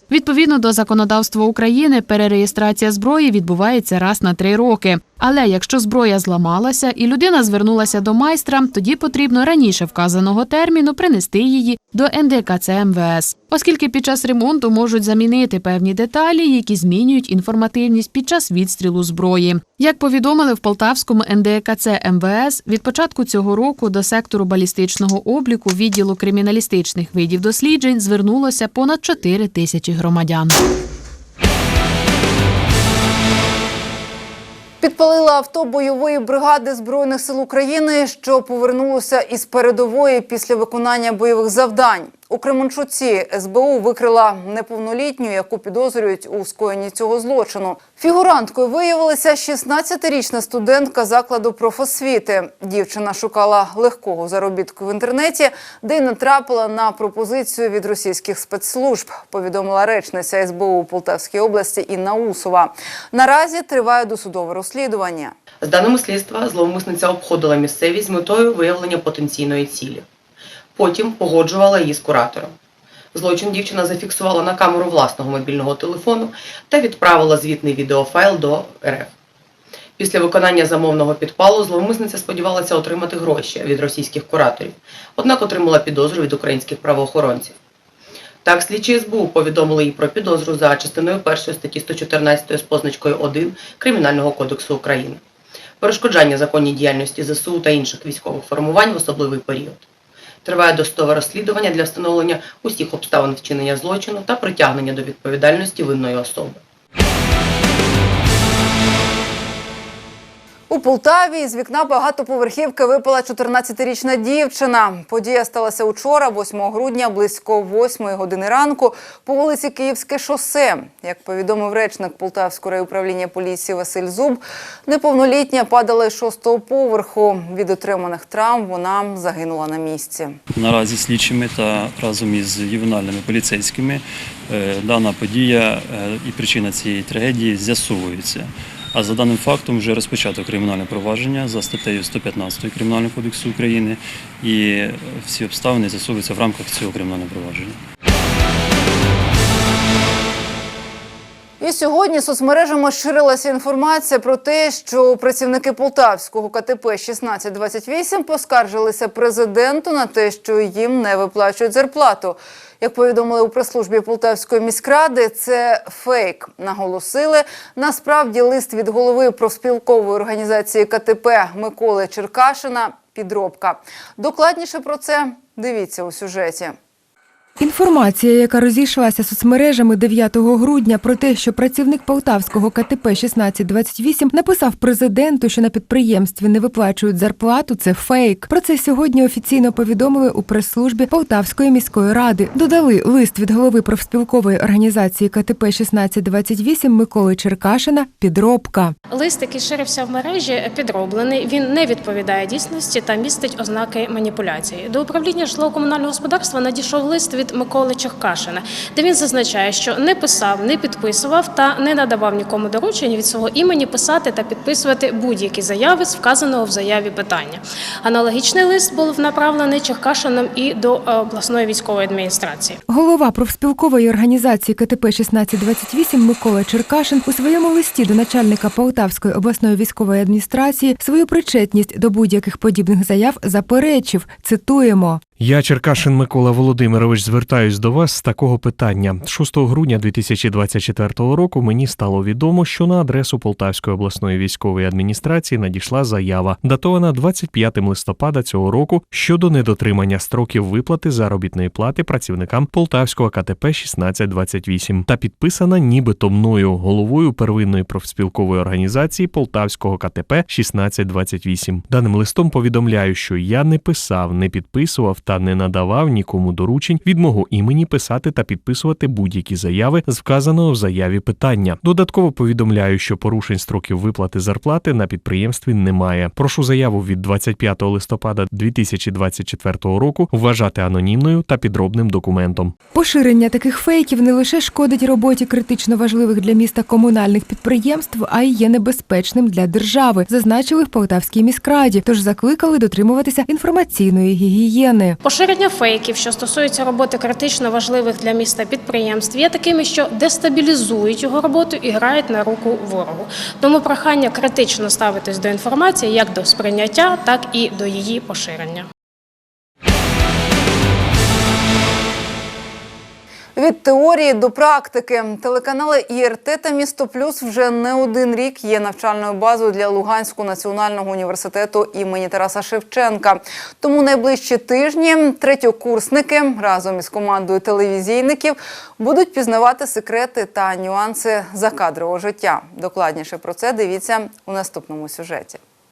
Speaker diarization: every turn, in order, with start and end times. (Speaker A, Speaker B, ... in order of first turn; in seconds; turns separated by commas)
Speaker A: 0.1-30.6, Speaker B: 34.8-65.3, Speaker C: 65.6-70.0, Speaker C: 70.8-72.5, Speaker C: 73.1-79.1, Speaker C: 80.0-87.5, Speaker C: 88.4-95.2, Speaker C: 95.8-99.8, Speaker C: 100.4-106.6, Speaker B: 110.7-130.4, Speaker D: 130.5-147.8, Speaker B: 151.6-176.8, Speaker E: 177.6-198.9, Speaker F: 199.1-222.8, Speaker E: 222.9-235.2, Speaker G: 235.4-282.7, Speaker E: 282.9-295.2, Speaker F: 295.2-308.8, Speaker B: 313.6-335.6